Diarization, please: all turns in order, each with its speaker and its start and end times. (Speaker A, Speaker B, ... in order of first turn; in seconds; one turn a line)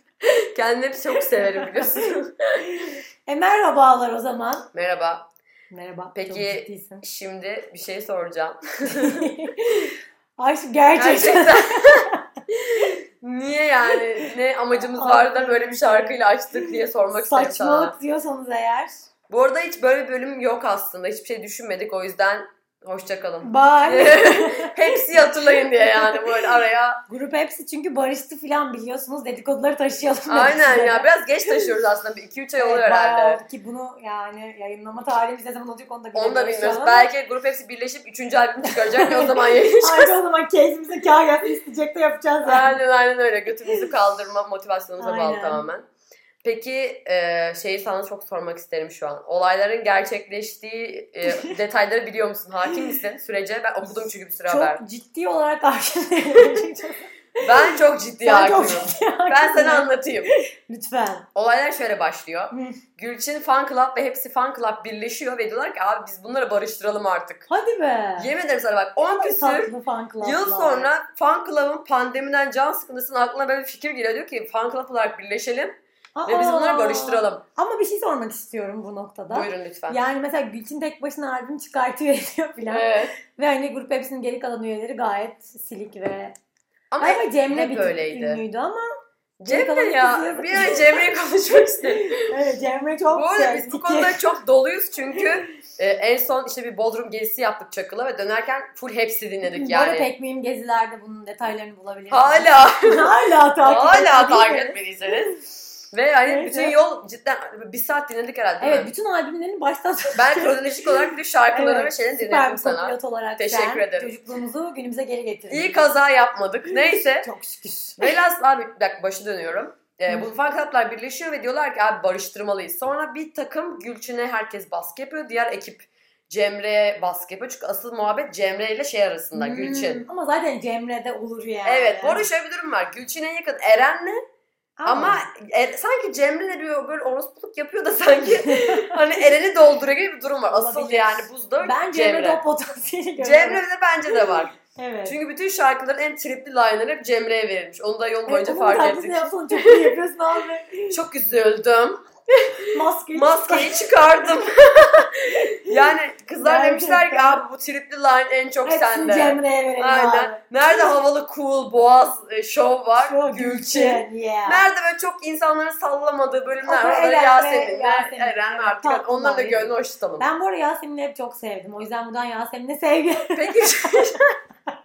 Speaker A: 0.5-2.7
Speaker B: 1.2-2.1
Speaker B: 2.7-4.7
Speaker A: 4.7-5.3
Speaker B: 5.7-7.0
Speaker A: 6.1-9.3
Speaker B: 8.9-12.2
Speaker A: 10.9-17.9
Speaker B: 14.8-18.9
Speaker A: 19.3-27.0
Speaker B: 23.4-26.5
Speaker B: 27.1-31.6
Speaker A: 30.3-33.4
Speaker B: 32.6-37.1
Speaker A: 36.1-40.1
Speaker B: 38.7-42.8
Speaker A: 42.4-45.9
Speaker B: 45.0-45.6
Speaker A: 46.4-54.8
Speaker B: 51.3-51.5
Speaker B: 53.9-57.7
Speaker A: 56.4-56.6
Speaker A: 57.4-60.3
Speaker B: 58.2-61.2
Speaker A: 61.3-67.5
Speaker B: 62.5-62.8
Speaker B: 67.5-68.3
Speaker A: 68.2-77.4
Speaker B: 69.2-70.9
Speaker B: 76.2-86.3
Speaker A: 79.3-80.0
Speaker A: 82.7-83.1
Speaker A: 86.9-88.4
Speaker B: 87.0-88.8
Speaker A: 89.4-92.3
Speaker B: 89.4-91.0
Speaker B: 91.8-94.2
Speaker A: 93.1-100.1
Speaker B: 99.4-104.8
Speaker A: 102.1-103.1
Speaker A: 103.6-105.3
Speaker A: 105.9-108.9
Speaker B: 106.2-106.7
Speaker B: 108.6-115.8
Speaker A: 110.2-114.1
Speaker A: 115.5-117.3
Speaker B: 116.7-118.1
Speaker A: 118.0-130.0
Speaker B: 129.3-132.2
Speaker A: 131.7-134.2
Speaker B: 134.8-135.2
Speaker A: 134.8-142.4
Speaker B: 138.2-139.0
Speaker B: 140.5-145.2
Speaker A: 143.2-144.5
Speaker A: 145.0-149.9
Speaker B: 148.3-151.0
Speaker A: 150.9-170.2
Speaker B: 152.7-154.3
Speaker B: 155.4-155.8
Speaker B: 156.4-157.4
Speaker B: 158.6-160.9
Speaker B: 163.0-164.7
Speaker B: 166.6-174.2
Speaker A: 173.3-174.2